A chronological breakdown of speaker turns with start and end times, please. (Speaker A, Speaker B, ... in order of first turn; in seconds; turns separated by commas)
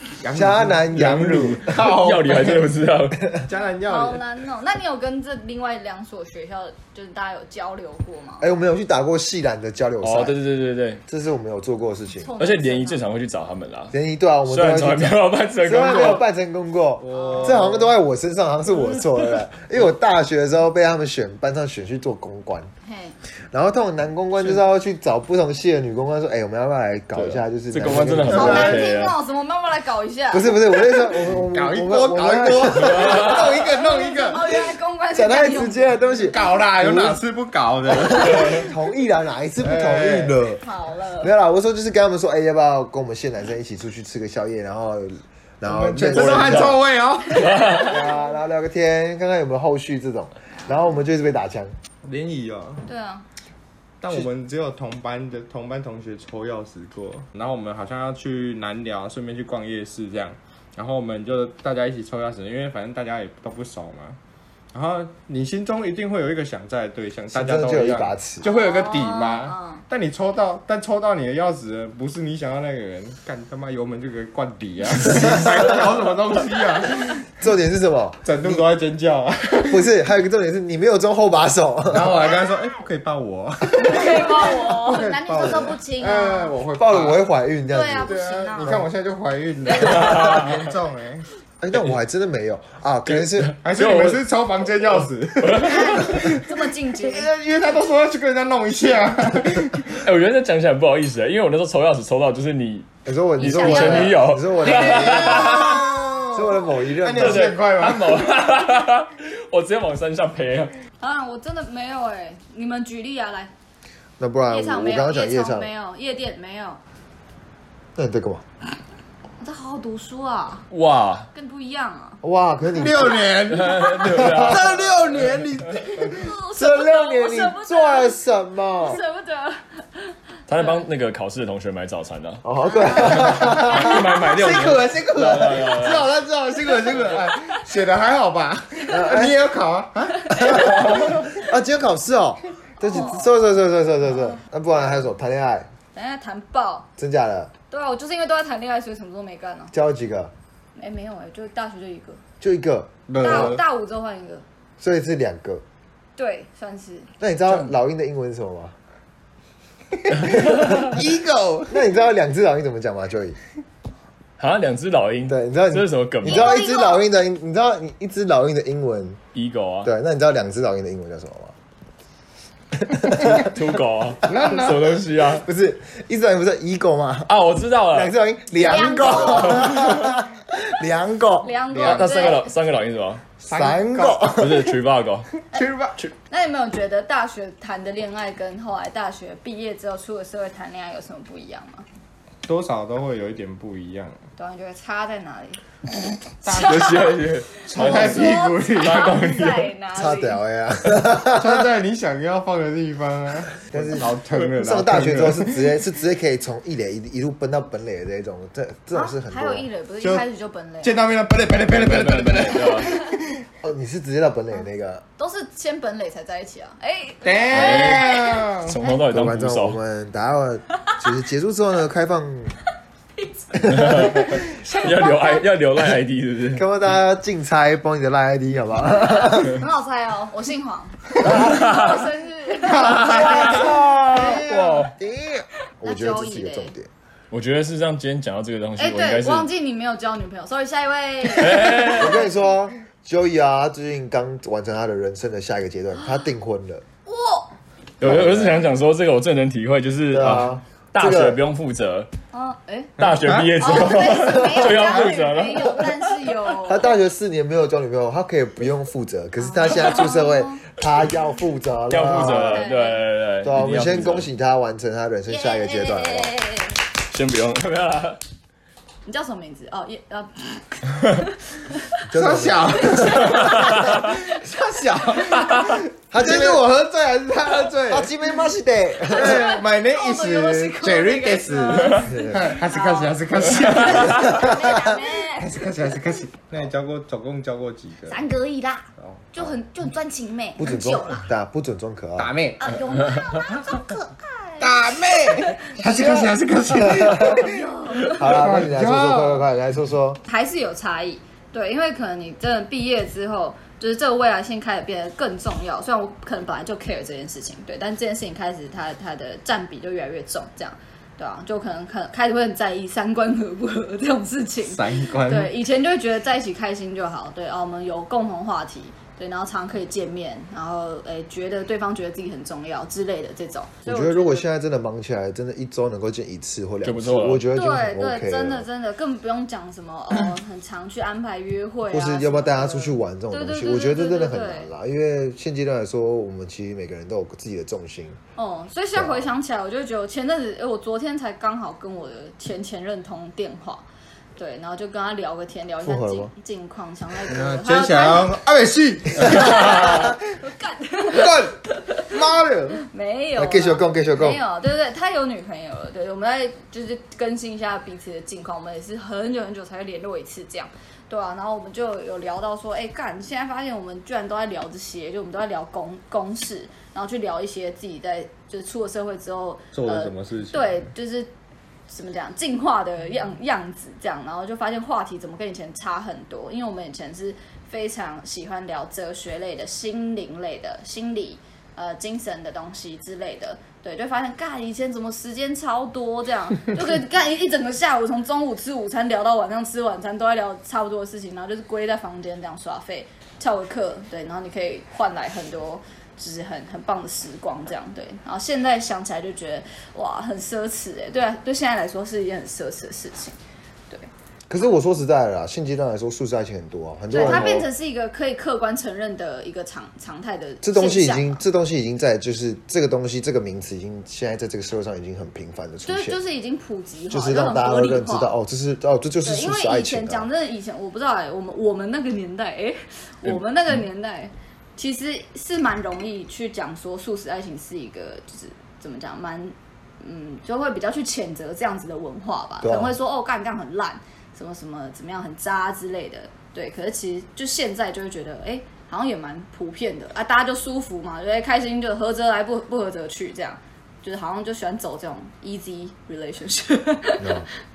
Speaker A: 0.2-2.6, Speaker B: 0.3-1.8, Speaker C: 1.7-3.2, Speaker A: 3.4-4.2, Speaker D: 3.8-8.5, Speaker B: 8.4-10.3, Speaker C: 10.0-11.0, Speaker B: 11.1-12.3, Speaker D: 12.2-13.0, Speaker C: 12.4-13.9, Speaker B: 13.9-22.7, Speaker C: 14.4-16.2, Speaker A: 17.0-17.9, Speaker D: 17.1-17.6, Speaker D: 22.8-23.1, Speaker B: 23.5-28.9, Speaker C: 27.1-29.1, Speaker A: 28.3-28.8, Speaker D: 28.3-30.6, Speaker B: 30.3-33.3, Speaker A: 31.1-34.6, Speaker C: 32.9-33.5, Speaker D: 33.7-36.3, Speaker B: 35.1-37.2, Speaker A: 36.2-38.7, Speaker B: 37.9-40.6, Speaker C: 38.2-38.6, Speaker A: 39.6-40.4, Speaker D: 40.6-41.3, Speaker B: 41.2-46.8, Speaker A: 45.6-47.9, Speaker C: 47.4-47.9, Speaker B: 47.7-51.7, Speaker A: 52.0-52.8, Speaker D: 52.9-53.2, Speaker A: 54.0-64.2, Speaker A: 64.7-77.2, Speaker B: 67.3-68.4, Speaker D: 68.4-69.8, Speaker B: 77.4-78.6, Speaker A: 78.2-79.9, Speaker B: 79.7-82.4, Speaker A: 81.9-87.2, Speaker D: 83.7-86.5, Speaker B: 86.8-88.9, Speaker D: 87.7-88.8, Speaker A: 88.0-91.3, Speaker C: 89.8-90.6, Speaker B: 91.6-93.5, Speaker C: 93.1-94.2, Speaker A: 93.6-96.4, Speaker C: 95.4-96.4, Speaker D: 95.6-97.3, Speaker A: 97.0-100.0, Speaker C: 100.0-102.9, Speaker B: 103.0-107.5, Speaker D: 103.4-104.2, Speaker C: 103.4-105.8, Speaker A: 104.6-108.2, Speaker C: 107.2-110.7, Speaker D: 111.0-113.5, Speaker B: 114.2-115.7, Speaker D: 114.5-116.8, Speaker B: 117.9-118.4, Speaker D: 119.4-120.7, Speaker C: 120.7-121.3, Speaker D: 121.3-122.2, Speaker B: 122.2-123.3, Speaker A: 122.7-126.3, Speaker C: 123.5-125.5, Speaker B: 124.1-124.8, Speaker D: 126.0-128.2, Speaker B: 126.5-129.0, Speaker D: 128.8-130.1, Speaker C: 130.5-132.4, Speaker B: 132.4-134.1, Speaker D: 132.6-134.0, Speaker C: 133.0-136.1, Speaker A: 134.2-141.3, Speaker B: 136.5-137.1, Speaker B: 138.9-139.3, Speaker B: 140.3-145.7, Speaker D: 142.8-143.3, Speaker D: 145.9-146.9, Speaker B: 147.0-147.5, Speaker D: 147.7-149.7, Speaker B: 149.7-150.3, Speaker D: 150.8-152.2, Speaker B: 152.4-153.6, Speaker A: 153.1-153.6, Speaker D: 153.2-154.4, Speaker B: 154.8-155.6, Speaker D: 156.2-157.1, Speaker B: 157.2-158.7, Speaker A: 160.1-161.9, Speaker C: 160.3-160.9, Speaker B: 161.7-163.4, Speaker C: 164.4-166.6, Speaker B: 165.3-169.2, Speaker D: 166.2-167.0, Speaker C: 169.3-169.9, Speaker B: 169.8-171.5, Speaker B: 172.8-173.5, Speaker C: 173.1-175.4, Speaker A: 174.2-175.0, Speaker B: 175.3-177.3, Speaker C: 177.2-178.1, Speaker B: 177.9-181.5, Speaker D: 178.6-180.0, Speaker C: 179.3-179.9, Speaker D: 181.4-182.5, Speaker A: 181.7-182.3, Speaker C: 181.8-183.2, Speaker A: 183.4-184.4, Speaker B: 183.5-184.7, Speaker C: 184.3-185.3, Speaker A: 185.5-186.0, Speaker D: 186.3-191.8, Speaker A: 192.4-194.2, Speaker D: 194.4-195.6, Speaker A: 196.4-197.1, Speaker D: 196.4-200.4, Speaker C: 196.5-199.7, Speaker A: 197.7-199.2, Speaker B: 199.9-201.6, Speaker A: 201.2-205.7, Speaker B: 203.7-209.7, Speaker D: 208.9-211.0, Speaker A: 210.8-213.4, Speaker C: 211.6-212.9, Speaker B: 213.6-215.0, Speaker D: 215.2-219.0, Speaker A: 217.2-218.8, Speaker C: 217.5-219.8, Speaker B: 219.1-222.6, Speaker D: 223.2-225.4, Speaker B: 223.6-224.3, Speaker C: 223.7-226.7, Speaker B: 226.5-229.6, Speaker D: 229.3-234.4, Speaker B: 231.2-231.6, Speaker C: 231.2-232.1, Speaker A: 232.6-233.6, Speaker C: 232.7-234.9, Speaker B: 233.1-236.9, Speaker D: 235.8-236.7, Speaker C: 237.3-239.5, Speaker D: 238.8-242.2, Speaker C: 241.3-242.2, Speaker B: 241.9-246.8, Speaker D: 245.9-246.2, Speaker D: 247.1-247.5, Speaker C: 248.0-252.1, Speaker B: 248.0-248.6, Speaker B: 250.1-251.4, Speaker D: 252.3-252.9, Speaker C: 253.0-256.1, Speaker A: 253.0-255.2, Speaker D: 253.6-256.9, Speaker B: 256.6-262.7, Speaker D: 259.4-260.6, Speaker C: 261.9-264.3, Speaker D: 262.0-263.1, Speaker B: 263.4-266.3, Speaker D: 265.3-266.8, Speaker C: 267.1-268.2, Speaker D: 269.0-272.0, Speaker B: 272.1-273.4, Speaker A: 272.1-276.6, Speaker D: 272.7-274.2, Speaker C: 273.5-273.9, Speaker B: 276.1-279.6, Speaker A: 277.7-278.1, Speaker D: 279.1-283.1, Speaker A: 279.1-284.8, Speaker B: 282.1-282.4, Speaker D: 284.1-285.6, Speaker B: 284.2-284.7, Speaker A: 285.4-288.2, Speaker D: 288.1-291.2, Speaker A: 289.0-289.5, Speaker B: 290.6-292.3, Speaker A: 292.2-292.8, Speaker D: 292.6-294.9, Speaker A: 294.6-299.4, Speaker B: 295.8-297.5, Speaker D: 297.3-298.1, Speaker B: 298.1-300.2, Speaker D: 300.2-324.5, Speaker A: 314.7-315.5, Speaker B: 323.8-328.7, Speaker C: 326.8-327.5, Speaker D: 327.5-334.7, Speaker B: 331.9-338.2, Speaker D: 338.4-348.3, Speaker B: 338.9-339.3, Speaker B: 345.8-346.3, Speaker A: 347.2-350.2, Speaker D: 349.2-352.1, Speaker A: 351.1-352.8, Speaker D: 352.9-371.3, Speaker B: 353.4-354.4, Speaker A: 369.7-370.8, Speaker D: 371.9-403.4, Speaker B: 404.5-407.7, Speaker D: 407.1-411.4, Speaker B: 410.6-416.2, Speaker D: 415.9-418.4, Speaker B: 417.1-420.3, Speaker D: 419.2-447.4, Speaker B: 432.6-432.9, Speaker B: 447.2-447.5